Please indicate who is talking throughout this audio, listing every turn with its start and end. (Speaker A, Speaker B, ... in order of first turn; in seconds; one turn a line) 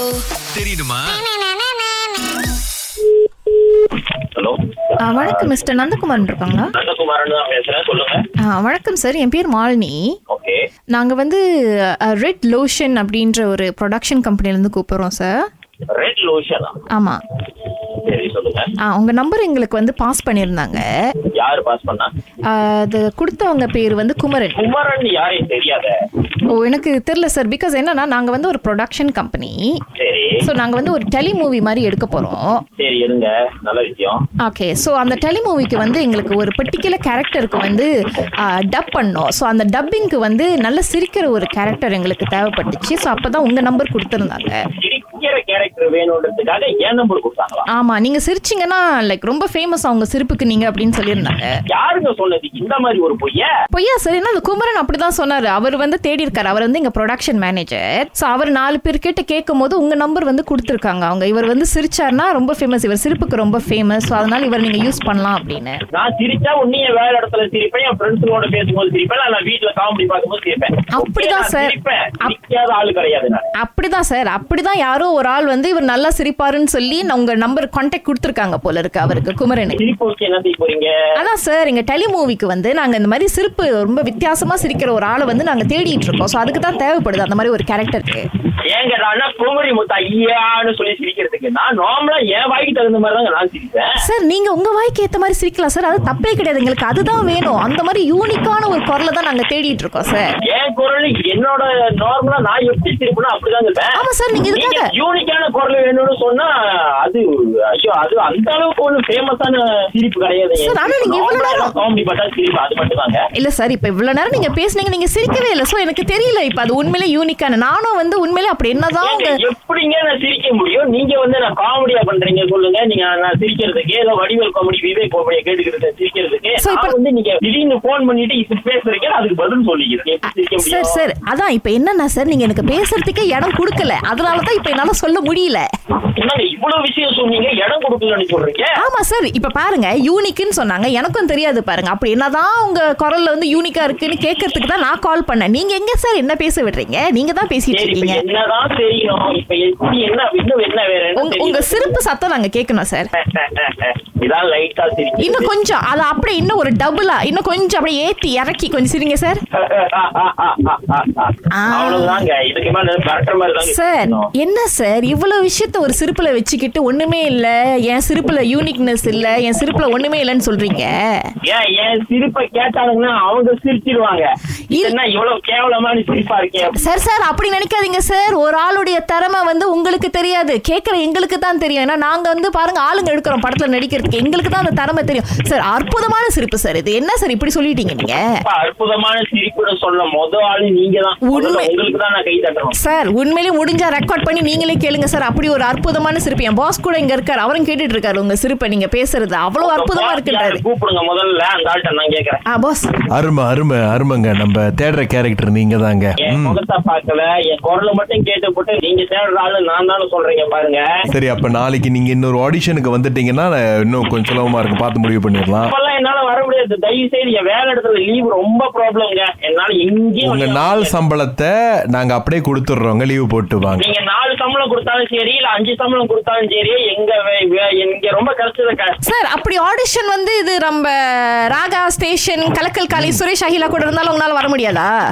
Speaker A: 0.5-1.0
Speaker B: 4.3-4.6
Speaker C: 5.0-6.7
Speaker B: 5.1-5.7
Speaker B: 6.7-8.2
Speaker C: 8.4-10.0
Speaker B: 10.3-10.6
Speaker C: 10.9-11.4
Speaker C: 12.0-15.4
Speaker B: 15.9-16.8
Speaker C: 16.9-17.2
Speaker B: 18.0-18.7
Speaker C: 18.8-20.9
Speaker B: 21.3-22.1
Speaker C: 22.5-24.7
Speaker B: 24.6-25.9
Speaker C: 26.5-29.7
Speaker B: 30.0-30.4
Speaker C: 30.4-32.6
Speaker B: 32.8-34.2
Speaker C: 34.4-37.9
Speaker C: 38.4-44.6
Speaker B: 44.8-47.6
Speaker C: 47.7-51.5
Speaker B: 51.7-53.5
Speaker C: 53.7-65.8
Speaker B: 65.9-73.5
Speaker C: 70.9-72.3
Speaker C: 73.6-79.8
Speaker B: 79.8-80.9
Speaker C: 81.2-88.2
Speaker B: 88.7-93.9
Speaker C: 94.0-100.3
Speaker B: 100.5-104.0
Speaker C: 104.0-104.8
Speaker B: 104.5-113.2
Speaker C: 110.6-111.7
Speaker C: 113.3-119.3
Speaker B: 119.0-131.0
Speaker C: 126.6-126.9
Speaker C: 130.6-135.6
Speaker B: 136.2-138.7
Speaker C: 138.8-148.2
Speaker B: 147.7-152.0
Speaker C: 151.2-153.1
Speaker B: 153.2-155.5
Speaker C: 155.2-159.4
Speaker B: 159.6-164.3
Speaker C: 161.5-162.2
Speaker C: 163.6-171.0
Speaker B: 171.4-176.8
Speaker C: 176.7-188.4
Speaker B: 188.4-192.8
Speaker C: 191.3-191.7
Speaker C: 192.8-200.6
Speaker B: 199.6-202.4
Speaker C: 202.5-202.9
Speaker A: 203.1-206.6
Speaker B: 206.2-210.9
Speaker A: 211.1-215.7
Speaker B: 215.7-221.0
Speaker A: 220.2-223.8
Speaker B: 223.8-229.0
Speaker C: 229.0-234.9
Speaker A: 232.9-233.2